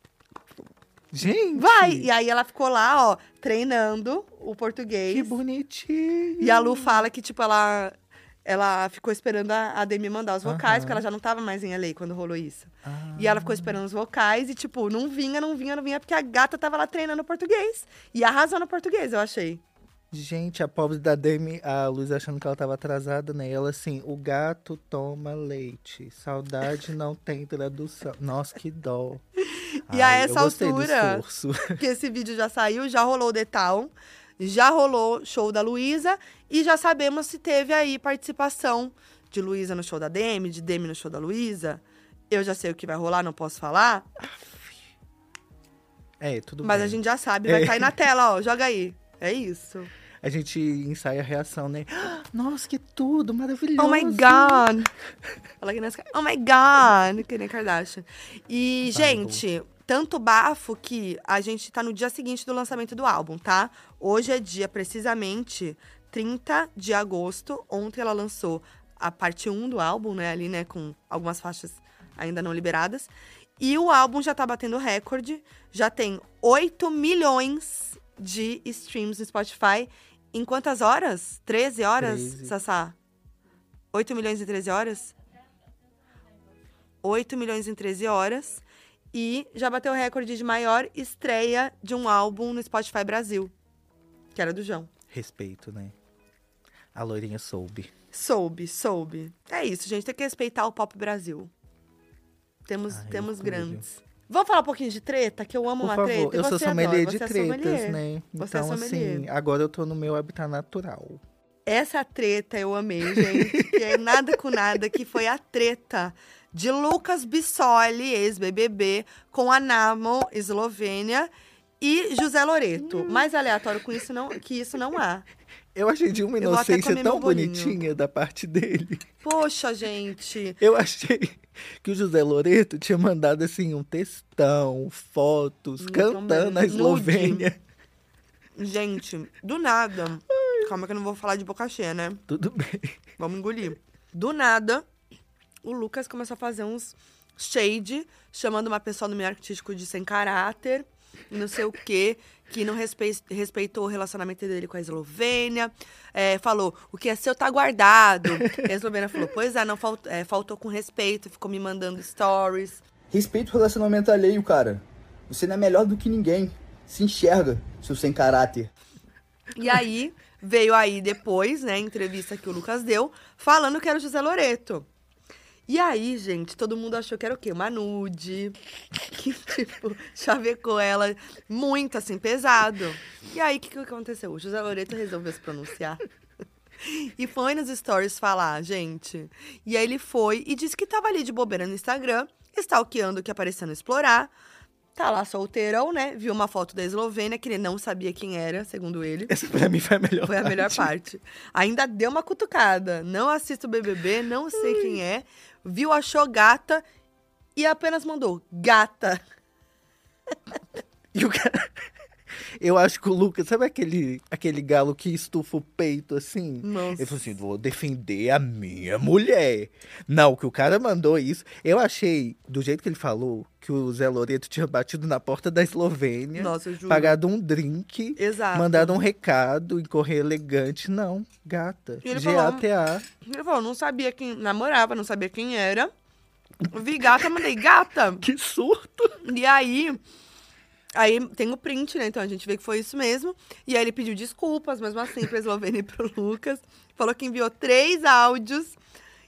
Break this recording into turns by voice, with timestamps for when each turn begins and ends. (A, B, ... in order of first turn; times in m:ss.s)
0:01.1-0:02.1 A
0:01.6-0:05.4 B
0:05.1-0:07.1 A
0:06.4-0:07.9 B
0:08.4-0:19.6 B
0:10.4-0:11.0 A
0:12.8-0:13.8 A
0:20.1-0:29.2 A
0:29.5-0:31.2 B
0:29.9-0:31.8 A
0:31.7-0:44.1 B
0:44.2-0:44.8 A
0:46.2-0:47.9 A
0:46.6-0:49.9 B
0:50.2-0:54.7 A
0:53.8-0:54.9 B
0:55.6-1:23.0 B
0:58.9-0:59.4 A
1:22.0-1:22.5 A
1:23.9-1:25.1 B
1:27.0-1:33.5 B
1:34.3-1:34.9 B
1:35.1-1:35.9 A
1:36.9-1:37.9 A
1:38.1-1:41.5 B
1:42.6-1:49.3 B
1:42.9-1:43.9 A
1:45.8-1:51.2 A
1:51.7-2:05.2 B
1:53.1-1:54.5 A
2:02.8-2:03.3 A
2:05.7-2:09.1 A
2:06.4-2:07.8 B
2:09.2-2:10.6 B
2:10.6-2:17.6 A
2:15.8-2:17.5 B
2:18.6-2:22.2 B
2:20.3-2:20.7 A
2:22.3-2:23.0 A
2:23.2-2:24.8 B
2:25.6-2:42.8 B
2:43.1-2:48.7 C
2:49.5-2:54.9 B
2:55.7-3:06.0 B
3:06.8-3:14.3 B
3:15.0-3:19.4 B
3:19.3-3:20.9 A
3:20.2-3:26.8 B
3:24.6-3:24.9 A
3:27.6-3:29.2 B
3:31.1-3:31.9 A
3:32.6-3:53.0 A
3:36.6-3:37.2 B
3:46.4-3:47.2 B
3:48.2-3:49.0 B
3:52.0-3:52.6 B
3:53.2-3:55.9 B
3:56.7-3:58.2 B
3:58.2-3:59.2 A
3:59.2-4:00.0 B
4:00.9-4:08.8 B